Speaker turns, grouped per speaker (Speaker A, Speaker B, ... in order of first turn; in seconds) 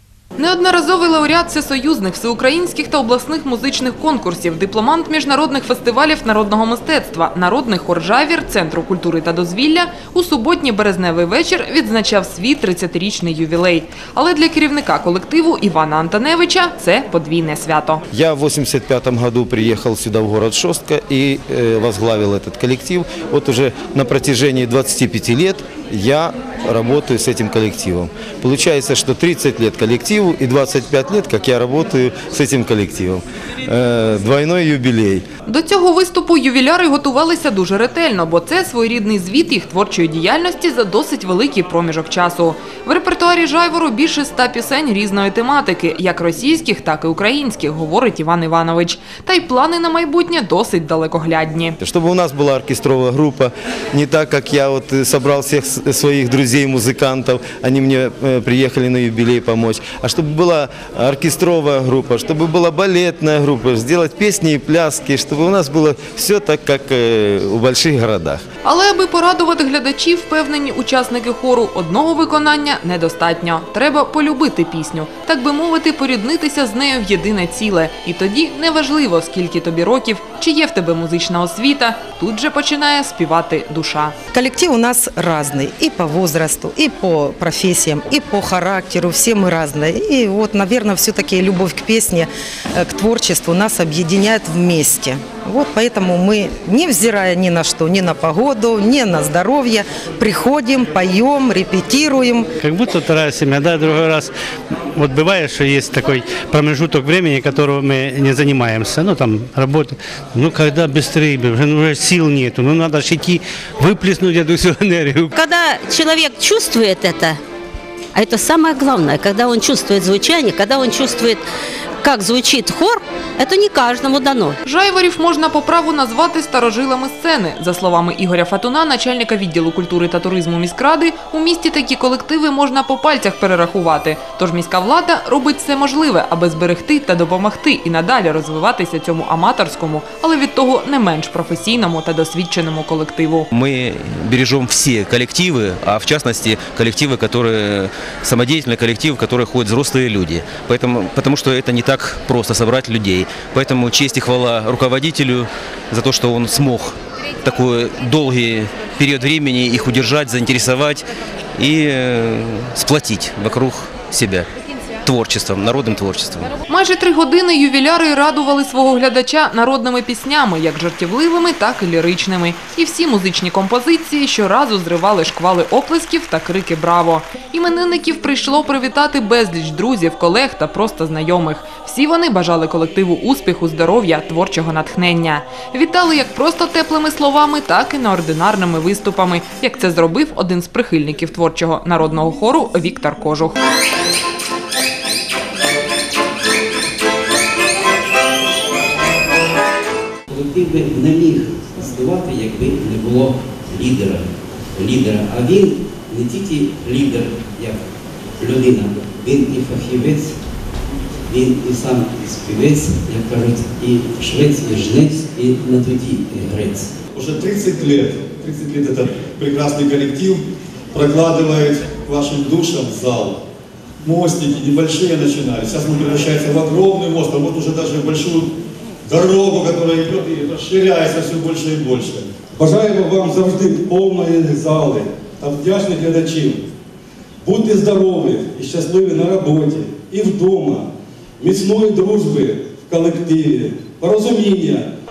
Speaker A: 0.4-18.0, 35.5-51.7, 68.7-84.1, 124.7-143.4, 166.7-193.6
Speaker B: 18.1-35.2, 51.8-68.4
Speaker C: 84.3-102.5
Speaker D: 102.6-104.3, 104.9-115.3
Speaker E: 115.3-117.4, 118.1-121.4, 122.0-124.6
Speaker F: 143.5-161.0, 161.6-164.5, 165.0-166.5
Speaker G: 200.3-207.8, 208.4-210.4, 211.3-216.9
Speaker H: 217.1-223.4, 224.0-228.6, 229.1-236.7, 237.4-244.9